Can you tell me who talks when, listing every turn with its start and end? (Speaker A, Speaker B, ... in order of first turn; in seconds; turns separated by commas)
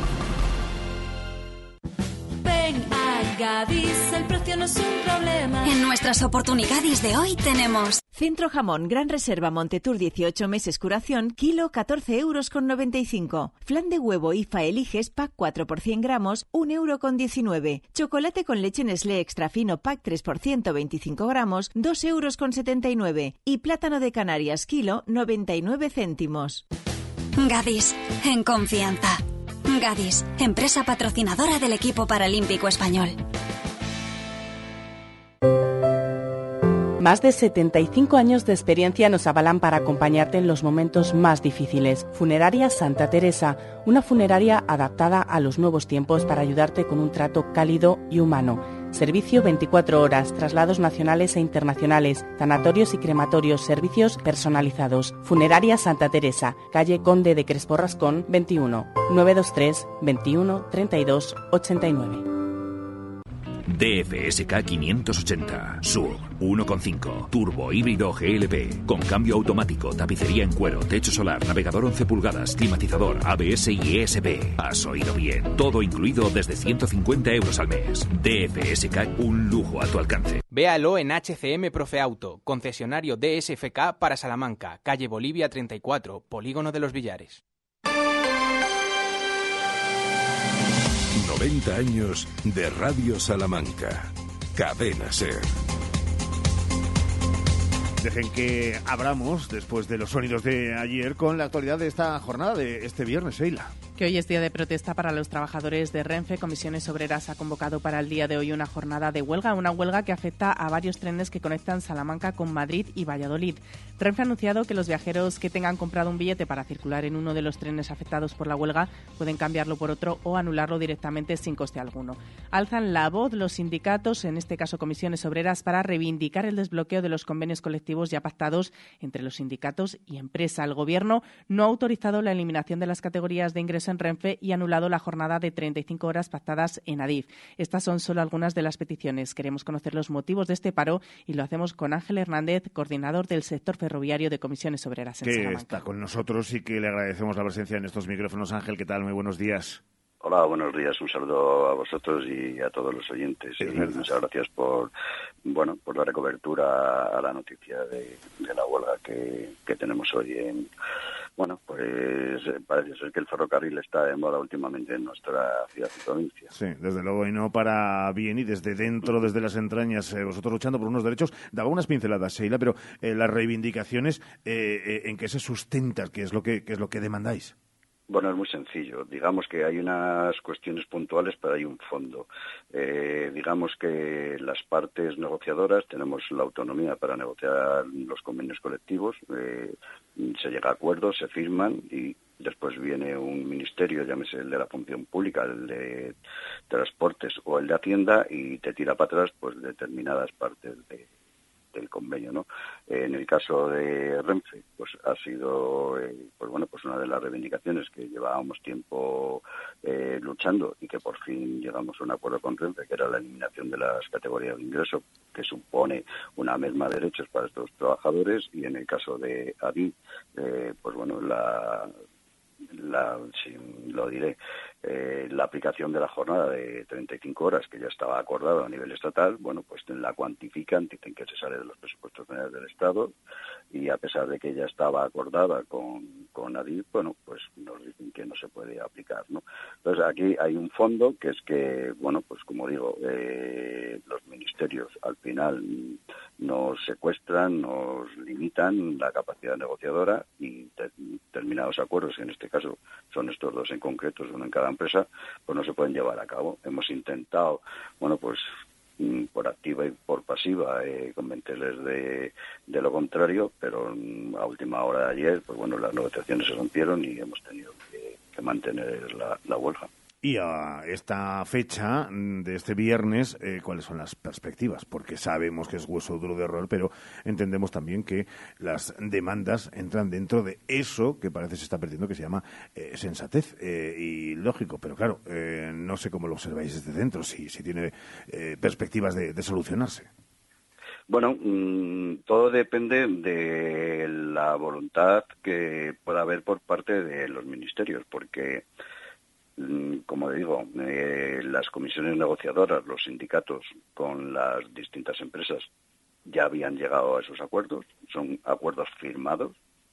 Speaker A: 2.4-5.6, Speaker B: 5.6-8.0, Speaker C: 8.1-26.6, Speaker B: 27.4-33.2, Speaker D: 37.0-62.3, Speaker E: 63.7-80.4, Speaker F: 80.5-87.4, Speaker G: 91.2-95.5, Speaker H: 98.0-103.7, Speaker D: 104.0-145.8, Speaker H: 145.2-149.8, Speaker I: 150.2-154.9, Speaker H: 153.6-154.1, Speaker I: 155.5-160.7, Speaker I: 161.4-166.5, Speaker H: 166.5-177.5, Speaker I: 178.1-196.1, Speaker I: 196.7-201.1, Speaker I: 201.7-221.9, Speaker I: 222.8-233.1, Speaker I: 233.7-258.4, Speaker I: 259.0-269.9, Speaker H: 270.2-290.1, Speaker I: 291.1-298.6, Speaker I: 299.6-305.7, Speaker I: 306.3-309.5